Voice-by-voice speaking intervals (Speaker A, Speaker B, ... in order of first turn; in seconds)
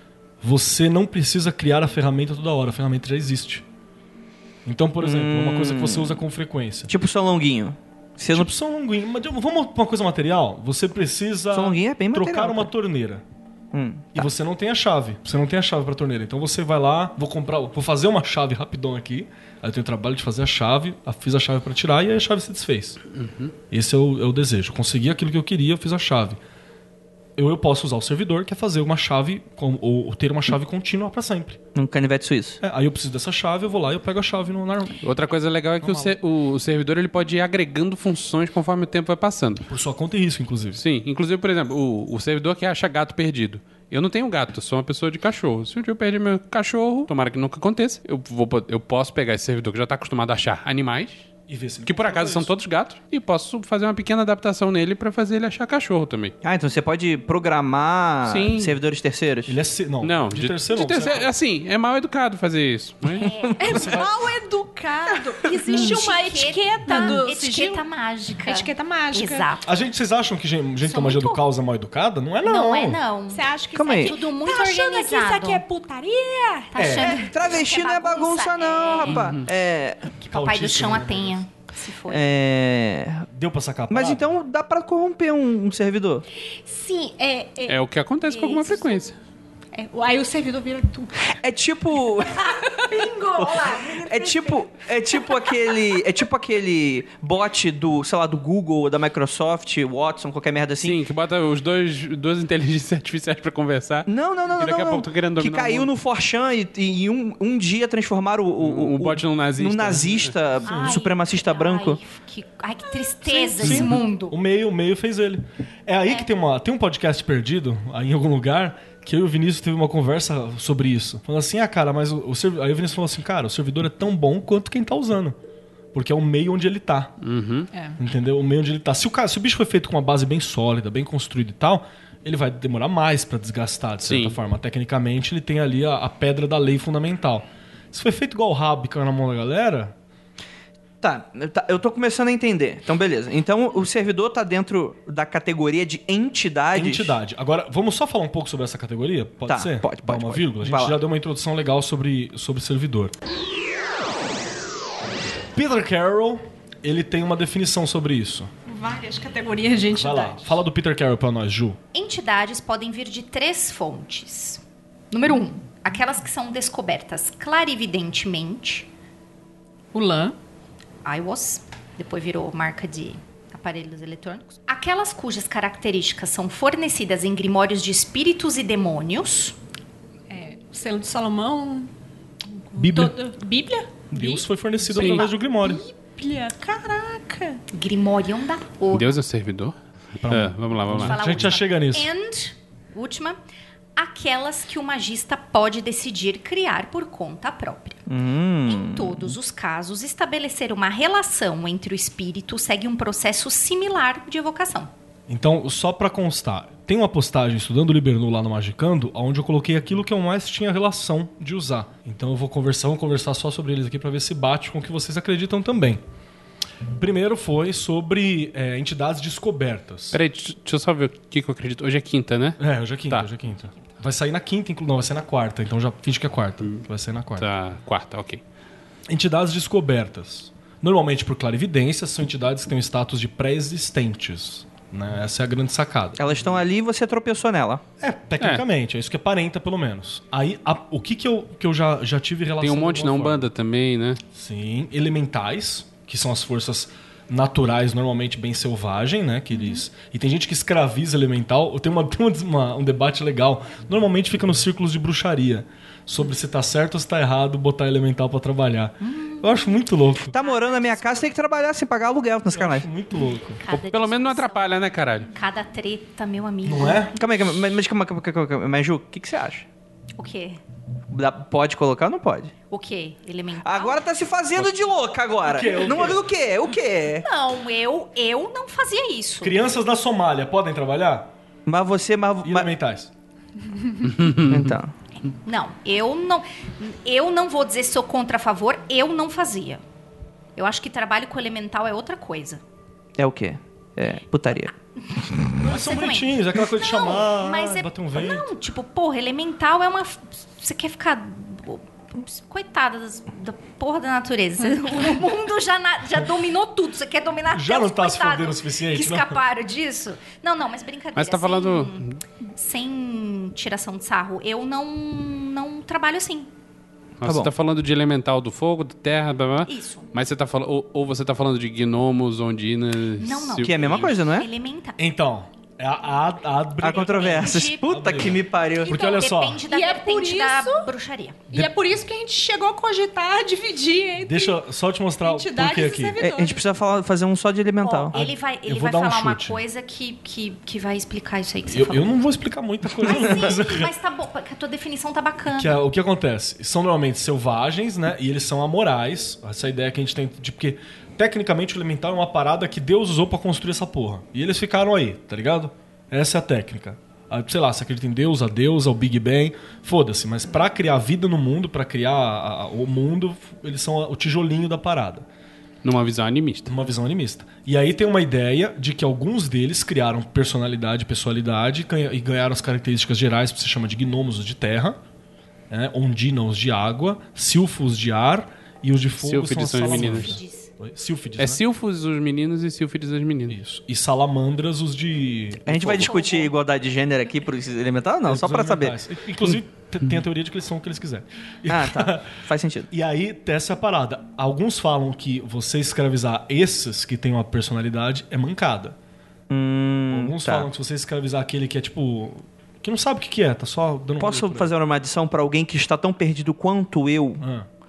Speaker A: 0.4-3.6, 4.6-6.9, 8.3-13.2, 14.1-23.0, 23.7-26.4, 27.4-31.6, 32.6-35.0, 35.8-36.1, 39.7-40.8, 51.5-52.5, 59.5-61.3, 69.6-73.0, 76.8-77.2, 80.3-81.4, 83.3-84.3, 113.6-125.3, 125.9-127.1, 128.0-139.9, 146.7-153.1, 155.5-158.5, 159.9-161.8, 182.8-183.2, 184.1-185.8, 190.2-192.1, 205.3-216.0, 216.9-220.2, 222.6-227.5, 229.1-236.4, 238.0-243.5, 244.3-260.3, 262.5-263.6, 266.6-267.1, 275.4-276.3, 279.4-281.3, 282.4-283.1, 295.6-298.5, 307.5-309.4, 325.0-329.6, 334.2-336.2, 338.1-339.6, 341.7-343.9, 345.5-365.2, 366.7-375.0, 375.7-381.6, 383.5-386.2, 388.2-392.4, 392.9-398.9, 400.1-404.7, 407.4-407.7
Speaker B: 5.0-6.2, 6.9-8.5, 11.5-12.7, 13.7-14.3, 31.7-32.6, 56.4-59.5, 63.2-63.8, 73.7-74.1, 77.1-80.1, 82.1-83.2, 83.9-86.2, 91.3-92.7, 93.4-101.0, 104.1-112.0, 141.0-147.1, 149.5-151.0, 198.1-199.3, 236.2-237.8, 260.3-262.9, 267.1-269.6, 271.1-272.5, 273.6-277.2, 281.6-282.7, 284.4-284.9, 293.2-294.7, 317.2-317.5, 323.6-324.5, 326.8-329.0, 336.2-338.1, 385.6-388.9, 391.7-392.9, 399.5-400.7, 404.2-407.4
Speaker C: 23.1-23.5, 35.0-39.7, 40.7-51.3, 51.8-56.3, 58.2-58.8, 60.0-64.0, 79.1-79.4, 87.7-89.2, 100.8-105.9, 108.6-110.4, 127.2-127.7, 134.1-134.4, 188.9-189.7, 190.2-191.5, 220.1-223.3, 227.4-228.4, 242.6-244.2, 263.7-265.3, 284.0-284.7, 311.1-312.2, 317.2-324.1, 365.8-366.7, 379.2-380.4, 381.4-383.6
Speaker D: 63.2-63.5, 65.4-69.7, 70.8-71.4, 72.4-75.6, 76.7-79.3, 80.2-82.2, 110.6-114.4, 161.9-168.9, 171.0-179.6, 187.7-189.2, 190.9-193.4, 193.9-198.0, 198.7-204.9, 259.0-259.7, 260.3-261.3, 263.6-264.7, 265.3-267.1, 270.2-270.6, 272.7-274.0, 277.2-279.6, 285.2-289.8, 290.6-292.6, 295.1-312.0, 312.6-316.5, 319.6-320.1, 323.2-325.0, 327.2-327.8, 328.8-331.4, 337.8-342.1, 343.0-345.8, 379.8-380.7, 386.1-386.5
Speaker E: 63.6-67.8, 68.4-69.5, 73.3-77.3, 86.6-89.0, 89.7-91.2, 92.2-95.8, 113.3-113.7, 127.7-128.0, 158.7-160.6, 169.9-170.3, 180.3-181.9, 182.5-187.6, 329.6-330.9, 331.5-334.6, 335.2-336.6